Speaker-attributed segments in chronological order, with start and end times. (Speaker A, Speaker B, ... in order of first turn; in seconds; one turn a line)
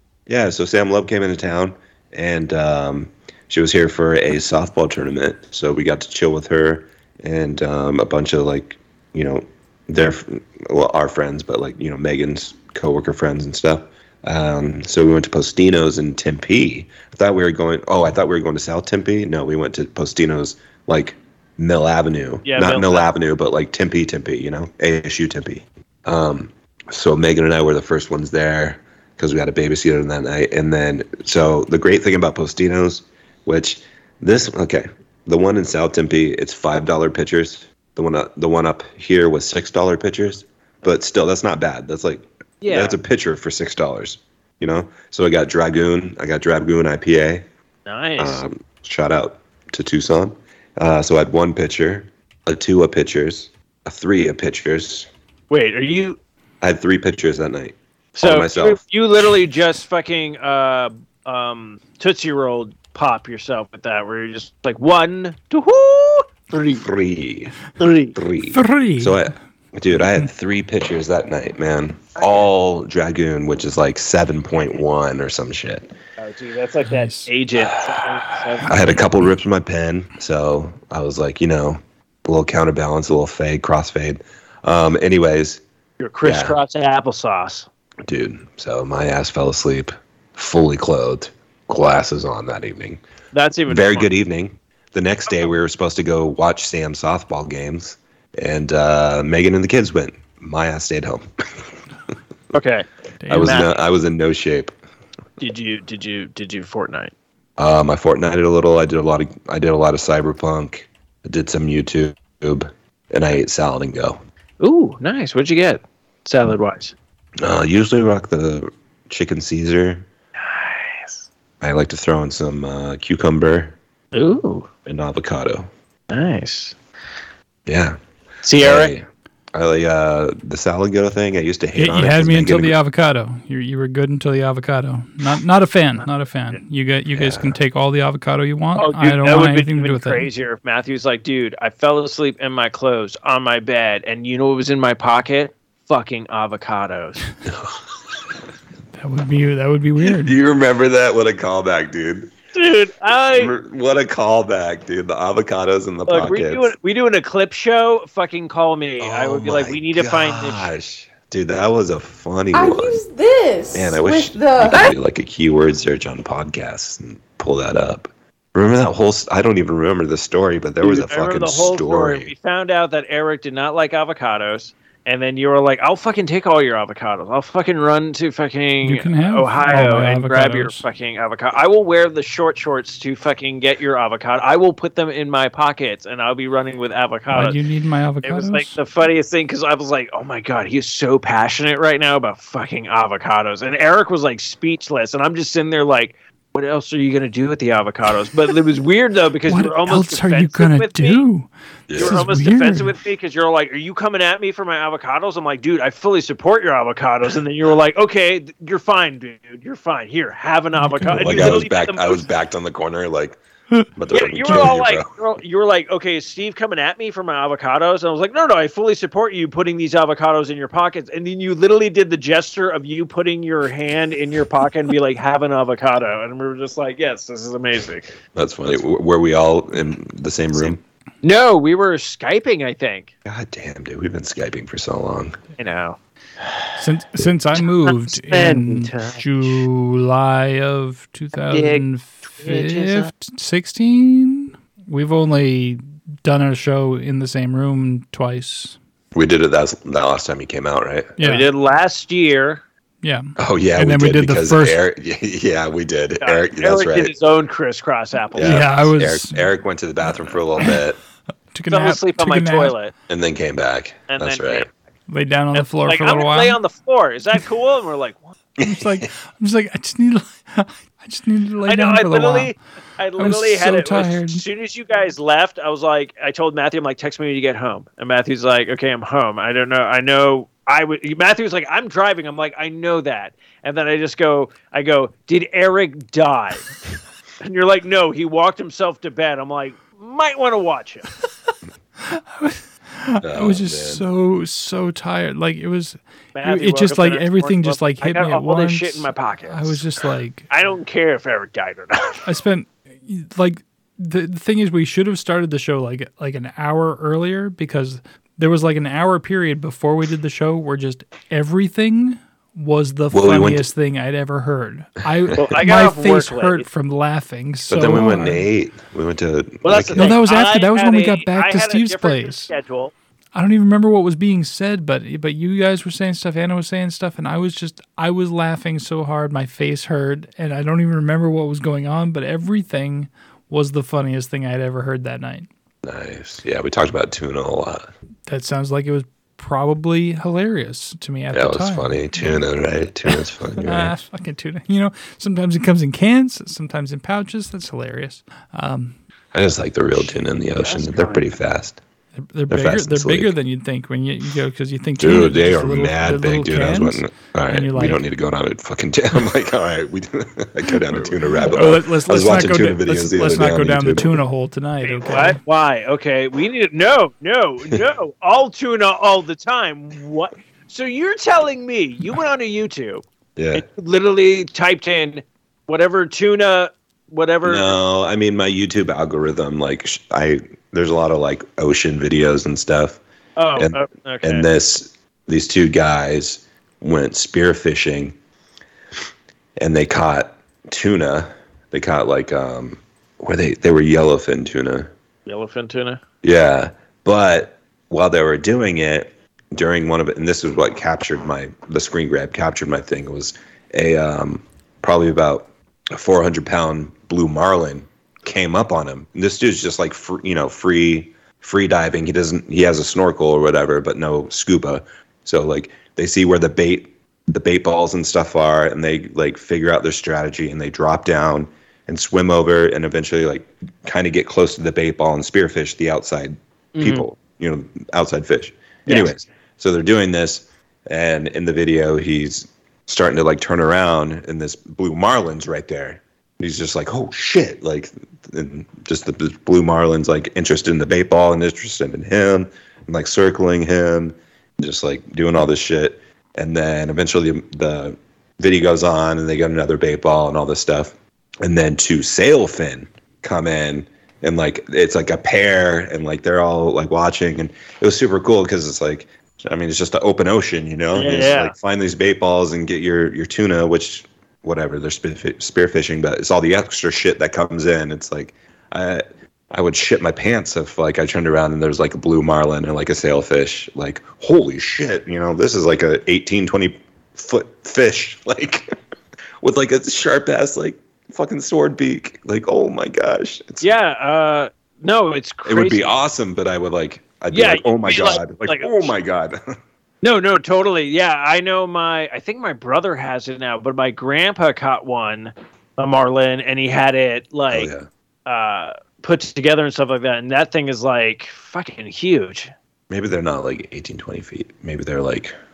Speaker A: 0.3-47.5
Speaker B: 22.5-23.1
Speaker B: 42.6-43.0
Speaker B: 47.9-48.4
Speaker A: 48.2-55.1
Speaker B: 55.5-56.2
Speaker A: 56.6-58.8
Speaker B: 58.2-66.9
Speaker A: 66.8-67.6
Speaker B: 67.8-68.2
Speaker A: 68.2-75.9
Speaker C: 68.4-69.3
Speaker B: 72.2-72.4
Speaker B: 76.2-79.0
Speaker C: 76.9-77.3
Speaker A: 78.7-85.6
Speaker B: 86.0-87.7
Speaker A: 86.2-86.6
Speaker A: 88.0-93.0
Speaker B: 93.3-94.1
Speaker A: 93.7-101.7
Speaker B: 102.5-102.9
Speaker C: 103.2-103.6
Speaker A: 103.3-104.8
Speaker B: 103.4-103.7
Speaker B: 105.4-107.1
Speaker A: 107.6-114.2
Speaker B: 114.6-117.0
Speaker A: 117.4-120.1
Speaker B: 120.4-121.3
Speaker A: 121.6-123.8
Speaker B: 124.1-124.7
Speaker A: 124.8-125.7
Speaker B: 126.1-126.8
Speaker A: 127.7-128.0
Speaker B: 128.4-128.9
Speaker A: 128.6-132.8
Speaker C: 131.8-140.3
Speaker A: 137.1-137.6
Speaker B: 138.8-147.2
Speaker A: 147.5-147.8
Speaker C: 149.0-150.4
Speaker A: 150.0-152.3
Speaker B: 152.6-153.5
Speaker A: 153.3-156.7
Speaker B: 156.1-160.7
Speaker A: 159.0-163.0
Speaker D: 162.5-164.8
Speaker A: 163.7-172.3
Speaker B: 170.8-187.6
Speaker C: 178.8-180.8
Speaker C: 187.3-188.8
Speaker B: 188.2-201.3
Speaker C: 199.5-203.0
Speaker A: 201.9-202.2
Speaker B: 202.0-212.2
Speaker C: 210.8-211.6
Speaker A: 211.2-213.4
Speaker A: 214.0-215.1
Speaker B: 214.1-228.1
Speaker A: 228.3-230.8
Speaker B: 230.5-233.1
Speaker A: 233.2-235.4
Speaker B: 235.6-236.7
Speaker C: 236.8-248.8
Speaker B: 237.6-239.6
Speaker B: 241.5-243.1
Speaker A: 249.1-251.2
Speaker C: 251.2-251.5
Speaker B: 251.2-252.6
Speaker C: 253.0-254.8
Speaker A: 253.4-257.1
Speaker B: 256.2-258.7
Speaker A: 258.4-261.0
Speaker C: 258.4-259.5
Speaker C: 260.2-260.7
Speaker C: 261.5-262.8
Speaker B: 261.7-262.9
Speaker A: 263.1-264.7
Speaker B: 264.1-264.7
Speaker C: 265.1-266.6
Speaker B: 265.5-268.4
Speaker A: 268.6-269.1
Speaker C: 268.6-272.6
Speaker B: 271.7-286.7
Speaker C: 273.2-274.4
Speaker B: 287.4-291.1
Speaker C: 292.1-300.4
Speaker A: 293.2-294.1
Speaker B: 296.4-299.8
Speaker B: 300.5-302.2
Speaker C: 302.2-318.4
Speaker A: 313.1-313.7
Speaker B: 315.4-316.7
Speaker A: 317.7-320.1
Speaker B: 319.6-322.9
Speaker C: 320.0-322.5
Speaker C: 323.4-335.5
Speaker A: 335.8-337.9
Speaker C: 338.3-342.4
Speaker A: 341.3-344.0
Speaker C: 343.6-349.0
Speaker A: 349.3-351.8
Speaker B: 350.6-351.3
Speaker C: 352.2-358.0
Speaker A: 352.5-353.4
Speaker A: 355.0-364.2
Speaker C: 361.5-365.4
Speaker B: 364.8-377.8
Speaker A: 373.4-373.6
Speaker A: 377.4-383.0
Speaker B: 383.4-384.5
Speaker A: 383.6-388.2
Speaker A: 389.6-394.9
Speaker B: 395.3-396.0
Speaker A: 396.2-478.7
Speaker B: 426.8-427.1
Speaker B: 428.9-429.2
Speaker B: 460.9-461.5
Speaker A: 479.4-483.7
Speaker B: 483.6-486.0
Speaker A: 485.5-489.4
Speaker B: 487.3-488.9
Speaker B: 490.0-497.7
Speaker A: 497.5-497.9
Speaker B: 498.3-502.5
Speaker A: 502.9-505.4